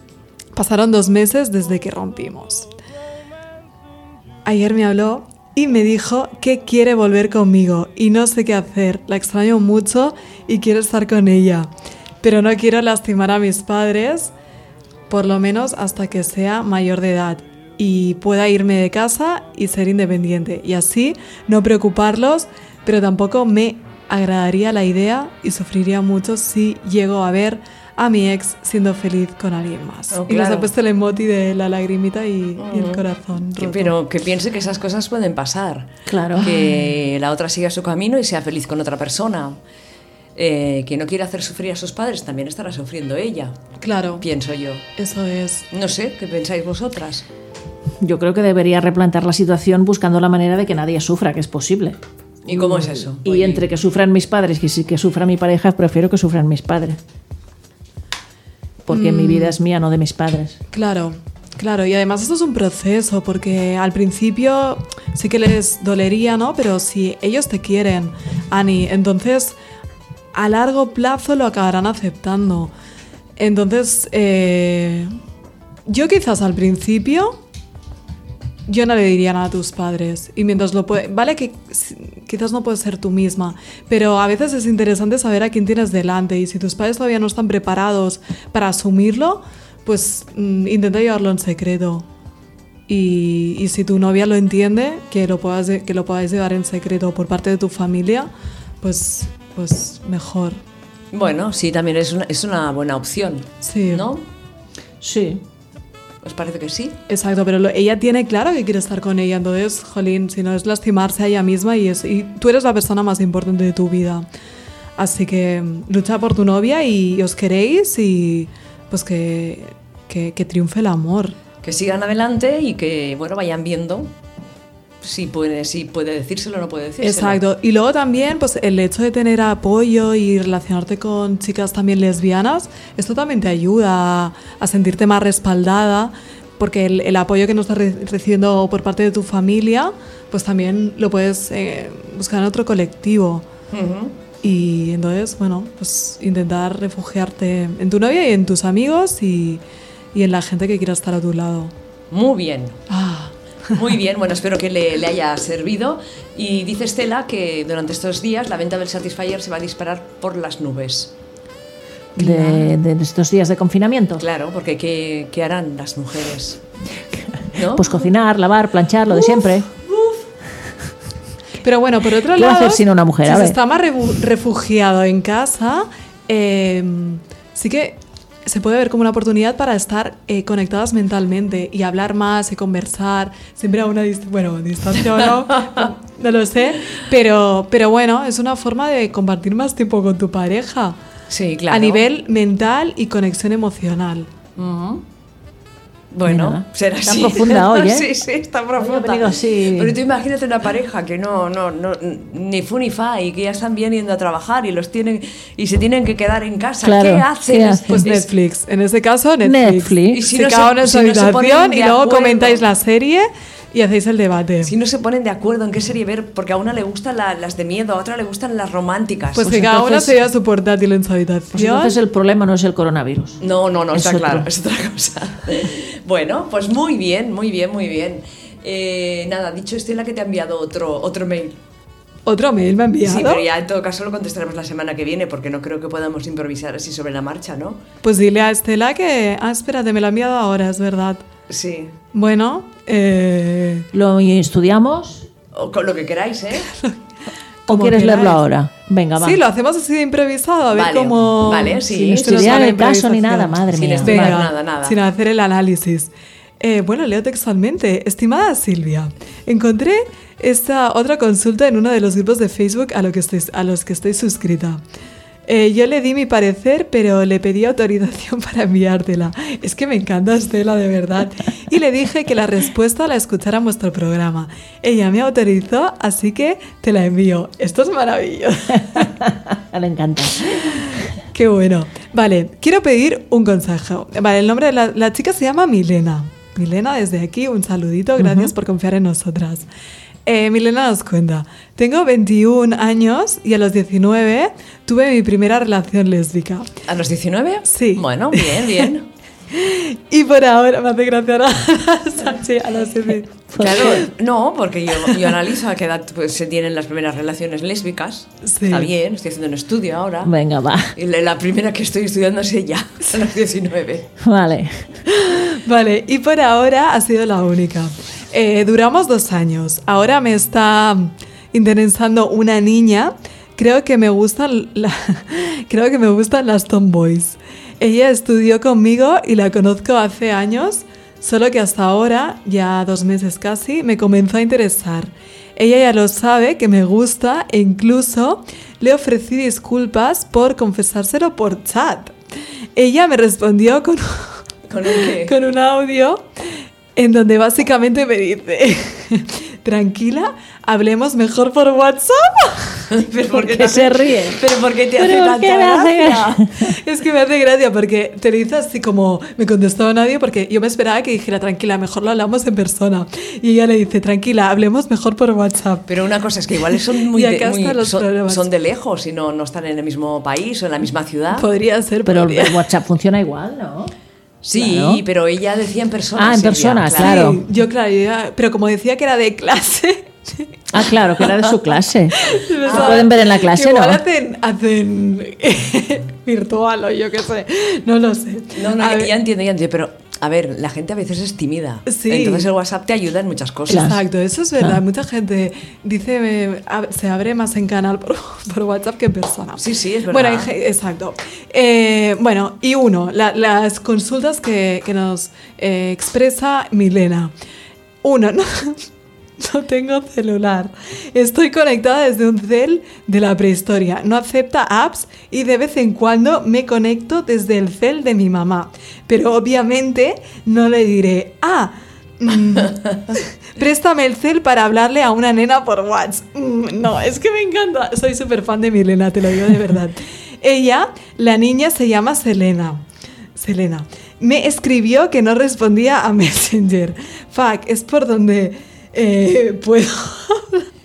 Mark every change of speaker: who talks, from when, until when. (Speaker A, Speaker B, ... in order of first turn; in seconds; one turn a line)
Speaker A: 0.5-2.7
Speaker A: 4.5-11.7
Speaker A: 12.2-14.3
Speaker A: 15.1-34.0
Speaker B: 30.1-30.7
Speaker B: 32.6-33.0
Speaker B: 33.6-39.6
Speaker C: 36.1-36.8
Speaker B: 40.4-43.6
Speaker A: 43.8-44.2
Speaker B: 44.2-44.8
Speaker A: 45.0-45.7
Speaker B: 45.7-47.2
Speaker C: 48.0-57.0
Speaker B: 52.5-53.7
Speaker C: 58.9-60.6
Speaker A: 58.9-59.6
Speaker A: 60.7-69.5
Speaker A: 70.3-72.7
Speaker A: 73.4-75.1
Speaker A: 75.9-77.4
Speaker A: 78.7-92.1
Speaker A: 92.9-98.3
Speaker A: 98.8-100.6
Speaker B: 101.1-104.2
Speaker A: 103.6-104.1
Speaker C: 105.0-105.4
Speaker B: 106.2-107.0
Speaker A: 107.1-114.3
Speaker A: 115.0-121.4
Speaker B: 121.6-124.1
Speaker B: 125.0-127.4
Speaker A: 127.0-143.4
Speaker B: 143.7-144.2
Speaker A: 144.4-149.6
Speaker A: 150.1-151.7
Speaker B: 152.1-152.8
Speaker A: 152.9-153.8
Speaker B: 153.7-161.1
Speaker C: 162.2-164.2
Speaker A: 162.2-162.7
Speaker B: 164.2-166.6
Speaker C: 167.3-169.7
Speaker B: 167.5-168.1
Speaker B: 169.1-170.2
Speaker A: 171.6-191.0
Speaker C: 172.3-173.6
Speaker B: 191.3-192.1
Speaker A: 191.7-194.3
Speaker B: 194.6-195.0
Speaker B: 196.1-208.3
Speaker C: 196.3-198.1
Speaker C: 198.8-200.0
Speaker C: 206.8-208.1
Speaker A: 207.9-214.7
Speaker C: 209.4-210.2
Speaker B: 210.1-212.6
Speaker B: 214.6-219.7
Speaker A: 219.3-222.0
Speaker C: 219.6-220.1
Speaker C: 221.5-223.4
Speaker B: 223.4-231.6
Speaker C: 223.9-224.5
Speaker A: 232.3-233.4
Speaker B: 233.1-237.8
Speaker A: 238.0-241.2
Speaker B: 241.5-241.9
Speaker A: 242.1-243.9
Speaker C: 243.9-245.3
Speaker B: 245.5-246.7
Speaker A: 246.7-247.0
Speaker A: 247.7-248.4
Speaker C: 247.7-249.4
Speaker A: 249.2-264.8
Speaker B: 250.7-252.8
Speaker C: 251.8-254.4
Speaker B: 253.7-255.0
Speaker A: 265.5-279.2
Speaker C: 278.9-280.8
Speaker A: 281.3-289.7
Speaker C: 288.2-288.5
Speaker A: 290.3-296.7
Speaker B: 296.9-299.1
Speaker A: 297.7-298.9
Speaker A: 299.5-303.8
Speaker C: 303.5-304.1
Speaker B: 303.6-310.3
Speaker A: 308.4-308.9
Speaker C: 310.2-310.9
Speaker B: 310.9-314.1
Speaker C: 314.2-314.9
Speaker A: 315.3-342.1
Speaker A: 342.8-352.9
Speaker B: 344.7-345.4
Speaker B: 352.9-356.1
Speaker C: 353.4-354.4
Speaker C: 355.0-356.8
Speaker A: 355.6-365.9
Speaker B: 365.9-371.5
Speaker A: 366.7-368.4
Speaker A: 371.3-372.6
Speaker C: 372.1-373.9
Speaker B: 374.4-377.3
Speaker C: 374.5-375.0
Speaker C: 376.2-377.4
Speaker A: 377.0-380.5
Speaker C: 380.7-384.0
Speaker A: 381.2-381.6
Speaker A: 382.2-389.1
Speaker B: 382.6-383.1
Speaker B: 388.6-393.9
Speaker A: 391.9-392.5
Speaker A: 393.7-407.3
Speaker C: 393.7-394.0
Speaker B: 399.6-400.5
Speaker A: 408.0-408.9
Speaker A: 409.4-432.8
Speaker A: 433.4-440.7